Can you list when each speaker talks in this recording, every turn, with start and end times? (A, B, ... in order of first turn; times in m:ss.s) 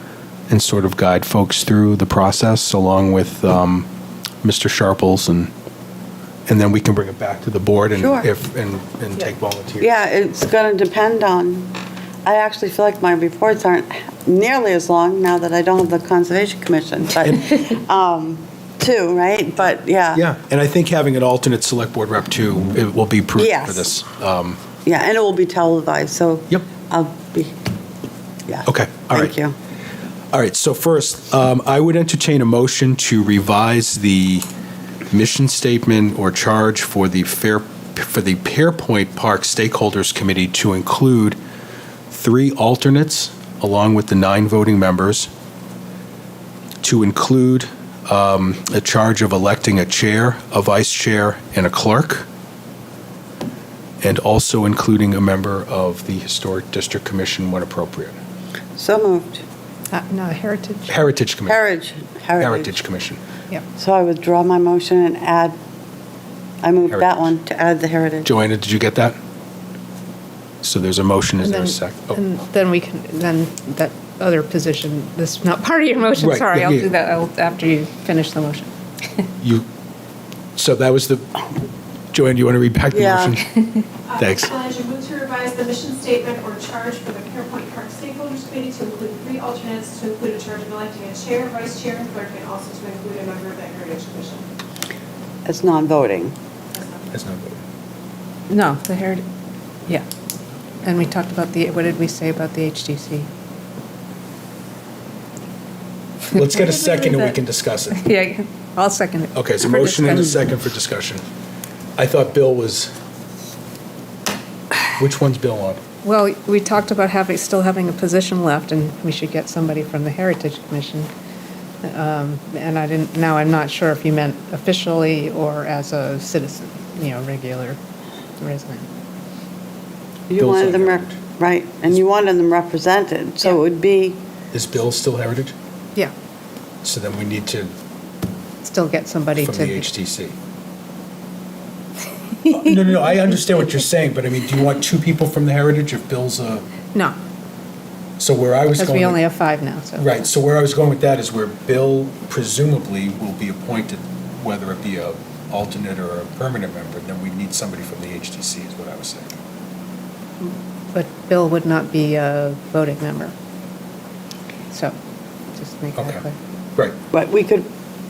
0:00.5-0:03.9 A
0:04.4-0:05.5 A
0:06.5-0:09.9 A
0:08.0-0:08.3 B
0:09.8-0:11.7 B
0:12.2-0:20.2 B
0:17.2-0:17.6 A
0:20.1-0:24.6 A
0:23.4-0:23.9 B
0:24.8-0:27.6 B
0:28.5-0:29.5 B
0:28.6-0:29.3 A
0:30.3-0:34.4 A
0:35.1-0:41.4 A
0:42.1-0:45.3 A
0:46.8-0:52.3 A
0:54.0-0:58.2 A
0:58.8-0:59.4 B
0:59.9-1:00.9 C
1:00.9-1:01.6 A
1:01.5-1:02.7 B
1:02.4-1:03.2 A
1:03.8-1:05.6 B
1:06.6-1:08.3 B
1:06.8-1:07.2 A
1:08.2-1:09.2 A
1:10.6-1:12.2 A
1:11.4-1:18.7 C
1:16.2-1:16.9 A
1:19.4-1:19.6 A
1:20.6-1:21.4 A
1:22.1-1:24.5 A
1:22.9-1:23.3 B
1:24.1-1:34.5 D
1:35.4-1:36.4 B
1:37.1-1:37.6 A
1:38.5-1:39.2 C
1:40.8-1:43.3 C
1:46.3-1:48.0 A
1:47.9-1:50.4 C
1:49.3-1:51.2 A
1:52.0-1:52.9 A
1:55.0-1:55.8 A
1:56.0-2:01.1 C
2:01.8-2:07.8 C
2:08.4-2:08.9 C
2:10.3-2:14.2 B
2:10.4-2:11.2 A
2:14.5-2:15.5 A
2:16.8-2:17.7 A
2:18.6-2:19.9 C
2:19.4-2:20.4 A
2:22.5-2:26.6 A
2:28.2-2:29.2 A
2:28.8-2:30.2 C
2:30.0-2:39.4 A
2:40.4-2:43.3 C
2:44.7-2:45.0 C
2:45.6-2:46.3 C
2:46.0-2:46.2 A
2:47.1-2:47.7 B